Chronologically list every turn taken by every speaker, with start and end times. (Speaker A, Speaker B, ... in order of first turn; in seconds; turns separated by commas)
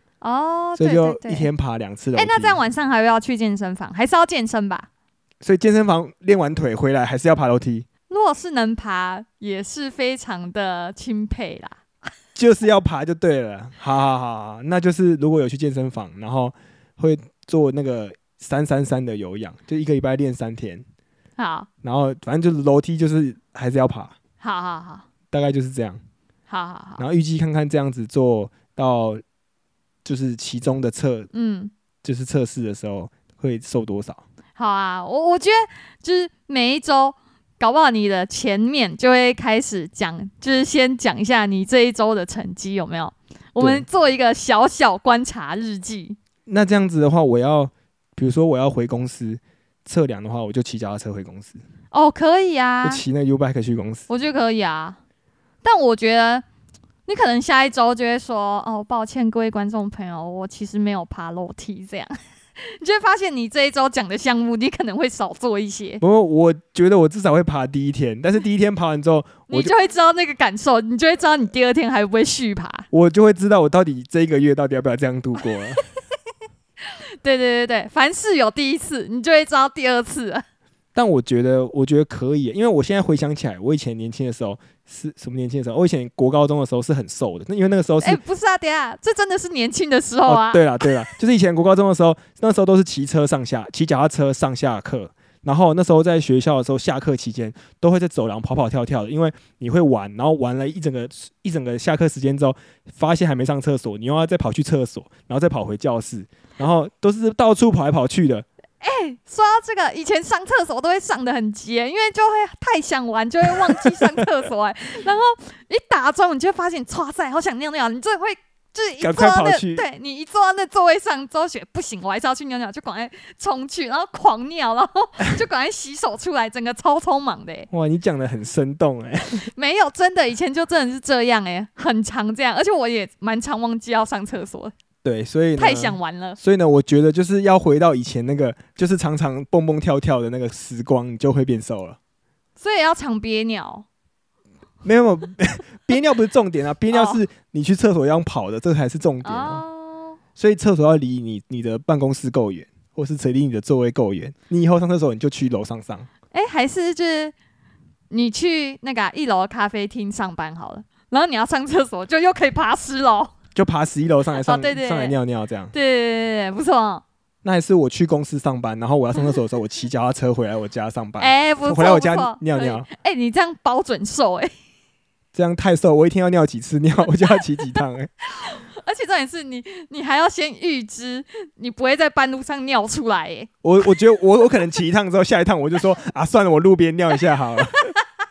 Speaker A: 0.2-1.5, Speaker B: 0.8-2.6, Speaker A: 2.1-4.9, Speaker B: 5.4-7.9, Speaker A: 8.1-11.8, Speaker B: 12.3-20.8, Speaker A: 21.4-21.7, Speaker B: 21.8-24.1, Speaker A: 24.4-25.0, Speaker B: 25.3-26.0, Speaker A: 26.5-27.0, Speaker B: 27.0-29.2, Speaker B: 30.0-31.3, Speaker A: 31.3-31.7, Speaker B: 32.0-34.2, Speaker A: 34.6-46.2, Speaker B: 43.6-43.8, Speaker B: 46.5-51.6, Speaker A: 51.9-53.0, Speaker B: 52.8-54.1, Speaker A: 54.1-55.0, Speaker A: 55.6-56.4, Speaker A: 57.0-66.0, Speaker B: 66.0-69.7, Speaker A: 69.5-72.9, Speaker B: 72.9-75.8, Speaker A: 77.2-80.4, Speaker B: 80.9-88.2, Speaker A: 88.0-90.6, Speaker B: 90.2-108.5, Speaker A: 108.8-127.7, Speaker B: 113.7-114.0, Speaker B: 119.0-119.8, Speaker B: 127.7-129.5, Speaker A: 129.5-134.7, Speaker B: 135.0-142.0, Speaker A: 135.6-136.4, Speaker A: 142.6-143.8, Speaker B: 144.8-149.6, Speaker A: 146.9-147.2, Speaker A: 149.2-150.2, Speaker B: 150.4-156.1, Speaker A: 156.3-157.3, Speaker A: 158.1-163.3, Speaker B: 163.5-165.7, Speaker A: 164.4-165.1, Speaker A: 165.7-167.0, Speaker B: 167.4-172.9, Speaker A: 171.2-174.5, Speaker B: 175.3-178.1, Speaker A: 178.4-183.5, Speaker B: 183.6-187.9